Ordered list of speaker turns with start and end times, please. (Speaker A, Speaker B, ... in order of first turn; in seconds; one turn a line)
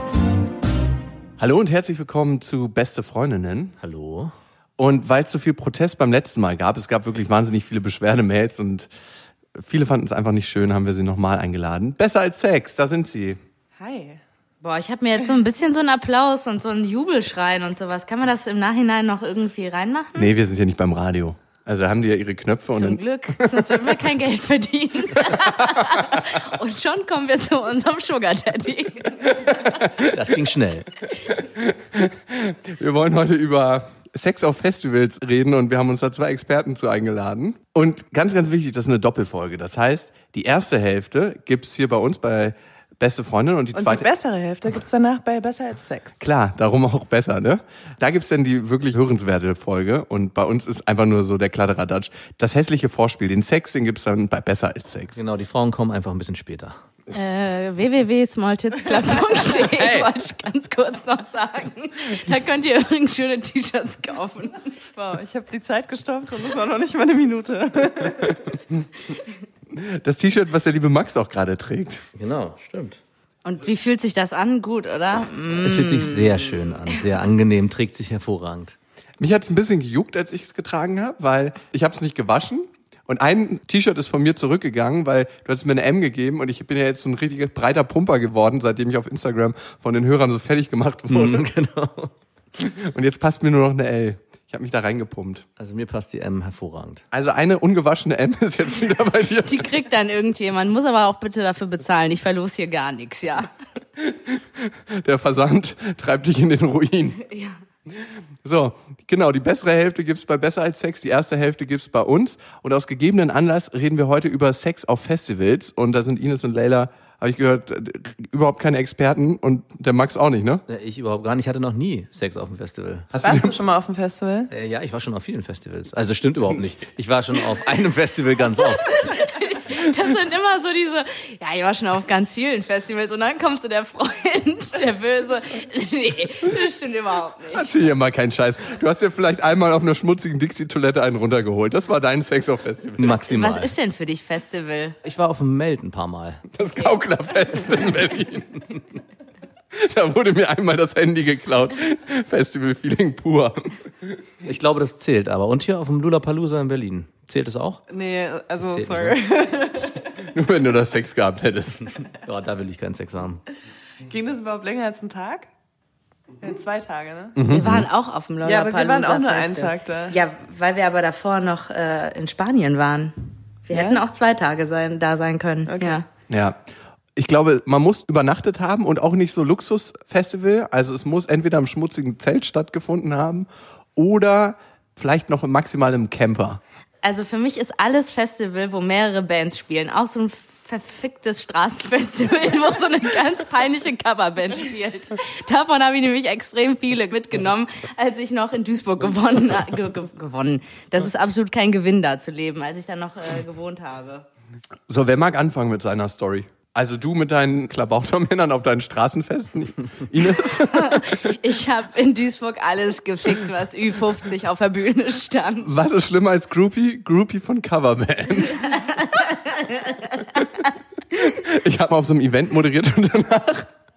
Speaker A: 1.4-3.8
Speaker B: 3.8-4.3
Speaker A: 4.8-8.9
Speaker A: 9.6-13.4
Speaker C: 13.8-14.2
Speaker D: 14.6-20.3
Speaker A: 20.1-23.9
Speaker D: 22.7-29.5
Speaker A: 25.4-26.2
Speaker B: 29.9-30.9
Speaker A: 31.3-44.1
Speaker C: 43.7-46.2
Speaker A: 46.2-55.2
Speaker B: 55.1-56.8
Speaker D: 57.1-64.6
Speaker B: 59.6-60.1
Speaker C: 65.0-68.5
Speaker A: 69.7-72.0
Speaker B: 72.1-73.0
Speaker D: 73.4-77.0
Speaker B: 75.6-78.7
Speaker A: 79.2-91.5
Speaker B: 91.1-92.1
Speaker A: 92.5-95.4
Speaker B: 95.6-97.0
Speaker A: 97.1-99.7
Speaker D: 99.4-103.5
Speaker A: 104.0-107.2
Speaker D: 107.2-107.6
Speaker A: 108.4-120.6
Speaker B: 120.7-123.1
Speaker A: 123.1-123.5
Speaker C: 123.2-124.5
Speaker B: 124.5-129.0
Speaker D: 128.8-137.7
Speaker A: 137.5-143.2
Speaker B: 143.0-143.7
Speaker D: 143.1-145.0
Speaker B: 145.0-146.5
Speaker A: 146.5-148.7
Speaker A: 149.7-154.1
Speaker B: 154.4-157.8
Speaker C: 157.9-160.0
Speaker B: 158.6-159.2
Speaker A: 160.2-161.9
Speaker B: 162.2-163.4
Speaker C: 164.1-165.5
Speaker C: 166.4-167.4
Speaker A: 167.3-167.9
Speaker D: 167.5-173.1
Speaker C: 168.4-170.1
Speaker D: 173.7-176.1
Speaker C: 173.7-174.0
Speaker C: 175.7-176.0
Speaker A: 176.3-176.6
Speaker A: 177.2-186.6
Speaker D: 187.0-204.2
Speaker A: 204.9-211.3
Speaker D: 210.5-215.7
Speaker A: 215.6-218.8
Speaker D: 218.6-220.2
Speaker A: 221.1-223.7